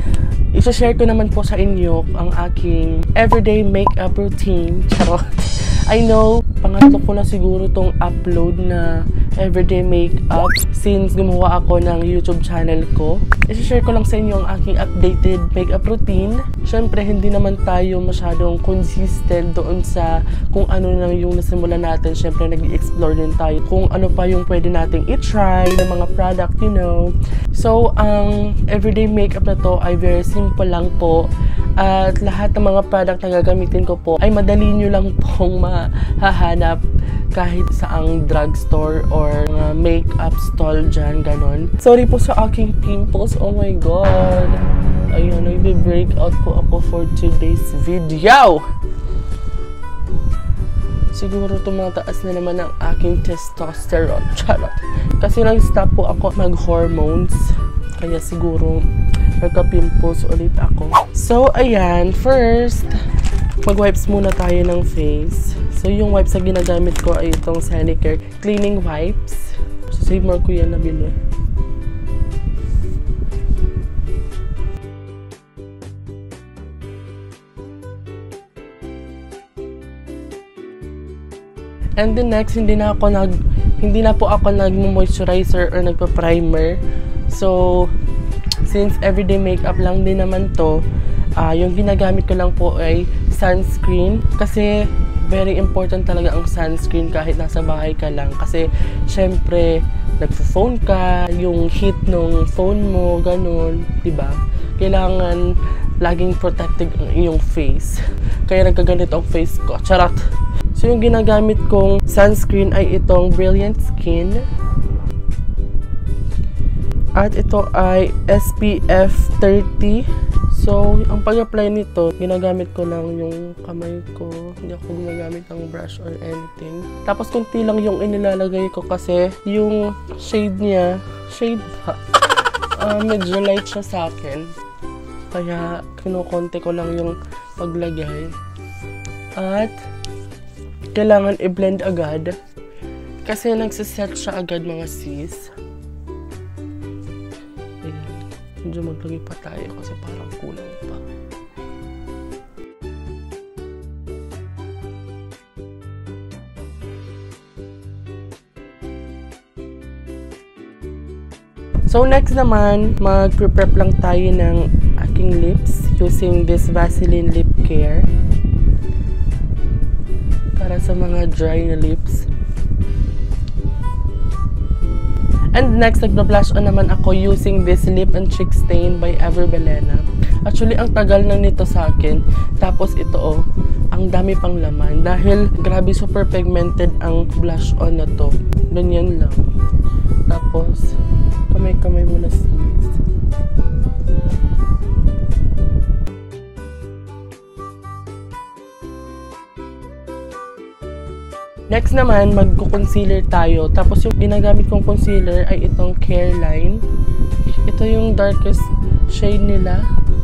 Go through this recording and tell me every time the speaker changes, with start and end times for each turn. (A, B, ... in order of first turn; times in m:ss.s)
0:00.5-0:48.6 A
0:51.1-0:58.8 A
0:59.4-1:03.0 A
1:03.6-1:11.2 A
1:22.0-1:27.9 A
1:28.6-1:30.8 A
1:31.4-1:50.2 A
1:50.8-1:54.5 A
1:57.2-2:12.0 A
2:12.8-2:14.5 A
2:15.3-2:18.3 A
2:19.4-2:19.7 A
2:21.0-2:22.4 A
2:23.2-2:25.5 A
2:27.8-2:31.0 A
2:41.9-2:48.1 A
2:50.6-2:52.3 A
2:55.5-3:09.5 A
3:10.3-3:10.9 A
3:11.5-3:13.0 A
3:21.7-3:26.8 A
3:27.7-3:29.8 A